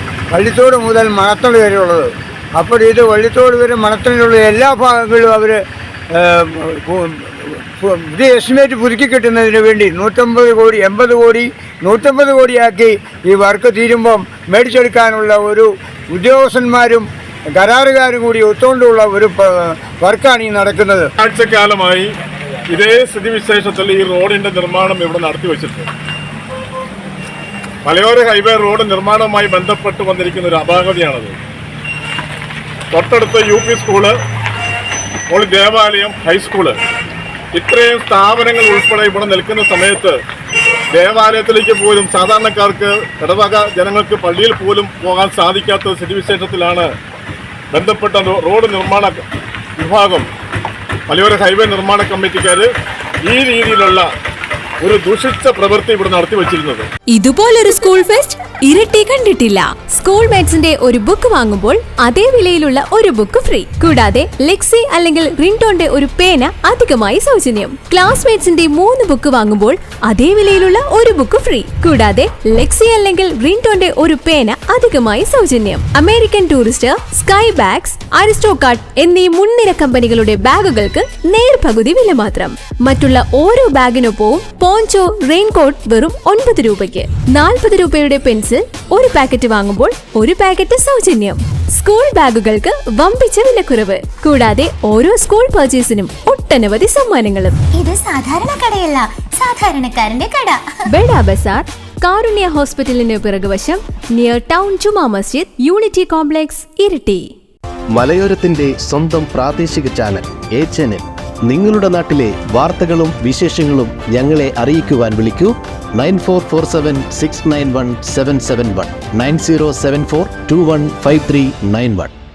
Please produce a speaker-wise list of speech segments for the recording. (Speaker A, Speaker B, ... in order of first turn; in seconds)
Speaker A: 0.3-5.6, 6.2-21.1
Speaker B: 21.2-22.1, 22.7-25.9, 27.8-31.4, 32.9-34.2, 35.3-36.8, 37.5-40.2, 40.9-46.9, 47.7-49.2, 49.8-50.3, 51.1-52.7, 53.2-54.1, 54.8-56.9
Speaker C: 57.1-97.6, 100.9-107.3
Speaker D: 97.8-100.7
Speaker E: 107.9-122.1